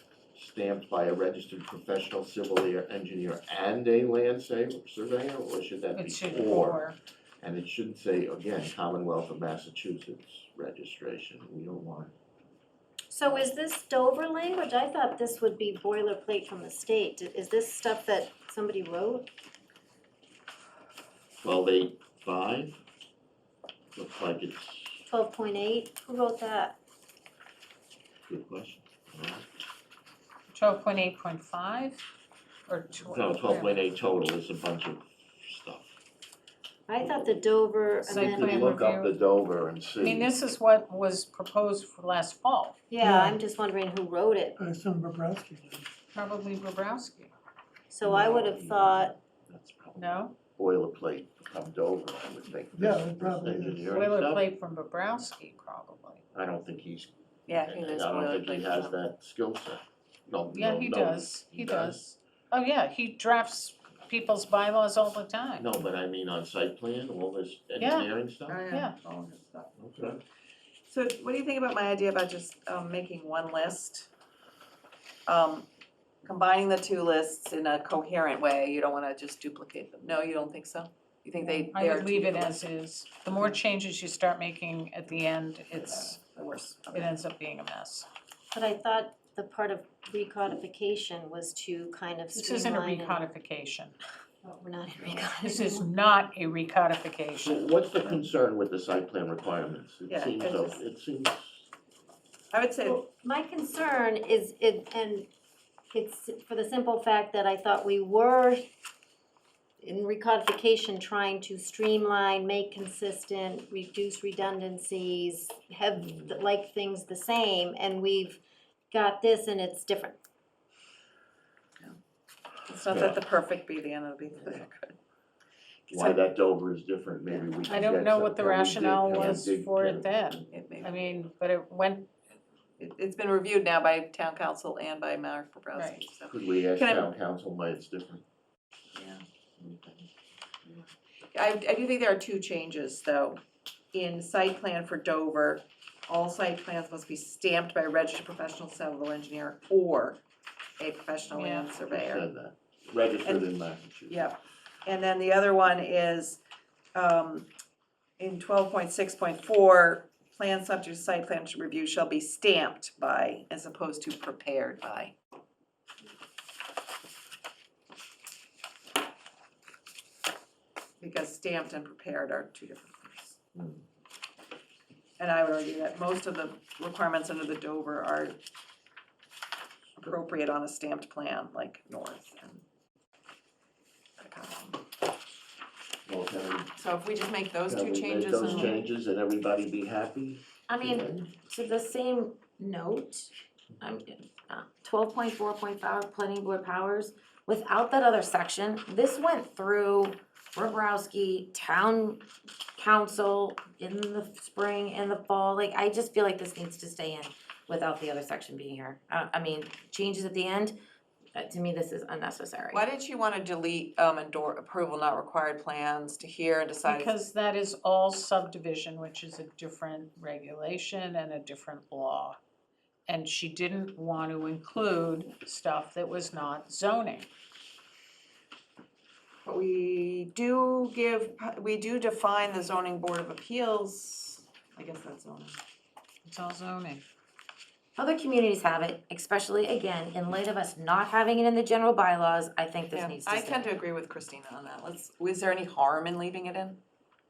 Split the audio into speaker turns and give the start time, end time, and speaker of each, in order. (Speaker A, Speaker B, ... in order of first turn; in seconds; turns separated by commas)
Speaker A: 0.3-6.8, Speaker B: 5.9-7.0, Speaker A: 7.4-12.1, Speaker C: 13.1-19.3, Speaker A: 21.4-22.8, Speaker A: 23.9-25.0, Speaker C: 25.1-26.8, Speaker A: 28.3-29.5, Speaker B: 30.5-32.0, Speaker B: 32.7-33.9, Speaker A: 33.0-36.0, Speaker C: 36.9-38.7, Speaker B: 38.0-39.1, Speaker A: 38.1-40.3, Speaker B: 40.0-42.8, Speaker C: 42.9-44.6, Speaker D: 43.0-43.4, Speaker D: 44.6-45.9, Speaker B: 46.1-47.3, Speaker C: 47.9-49.1, Speaker A: 48.0-54.5, Speaker B: 50.0-50.4, Speaker D: 52.7-54.0, Speaker B: 54.0-56.2, Speaker A: 56.3-62.1, Speaker E: 57.5-59.0, Speaker B: 60.5-65.7, Speaker A: 65.6-68.6, Speaker B: 67.8-68.1, Speaker E: 68.5-69.7, Speaker B: 68.7-69.0, Speaker A: 69.8-70.2, Speaker E: 70.9-74.1, Speaker E: 75.3-75.7, Speaker E: 76.2-82.6, Speaker B: 81.5-86.2, Speaker E: 85.8-87.1, Speaker B: 86.9-88.1, Speaker C: 88.5-93.2, Speaker B: 92.3-94.0, Speaker C: 94.4-95.9, Speaker B: 95.1-97.7, Speaker A: 97.4-101.7, Speaker E: 98.0-98.3, Speaker E: 100.1-100.8, Speaker E: 102.5-103.0, Speaker C: 102.8-105.3, Speaker C: 105.9-108.6, Speaker C: 109.8-118.4, Speaker A: 116.0-116.3, Speaker C: 118.9-120.2, Speaker E: 122.7-125.0, Speaker A: 122.9-123.2, Speaker A: 125.9-130.8, Speaker B: 127.7-132.1, Speaker E: 130.5-130.9, Speaker E: 132.8-137.1, Speaker B: 135.7-136.0, Speaker A: 136.3-138.2, Speaker E: 138.9-140.1, Speaker E: 140.7-143.4, Speaker E: 143.9-150.2, Speaker E: 150.8-152.2, Speaker B: 151.3-151.7, Speaker A: 151.9-154.3, Speaker E: 154.1-156.4, Speaker E: 156.9-157.5, Speaker E: 158.2-165.2, Speaker E: 171.0-173.4, Speaker A: 173.6-173.8, Speaker E: 175.2-178.4, Speaker E: 180.0-182.6, Speaker E: 184.2-184.8, Speaker A: 186.1-186.7, Speaker E: 186.8-188.8, Speaker A: 187.7-191.2, Speaker F: 190.7-202.3, Speaker F: 202.8-210.8, Speaker F: 211.3-212.8, Speaker E: 212.7-217.2, Speaker B: 216.8-222.4, Speaker B: 223.1-227.3, Speaker E: 229.4-235.6, Speaker B: 236.3-237.0, Speaker F: 238.0-243.7, Speaker E: 242.9-246.8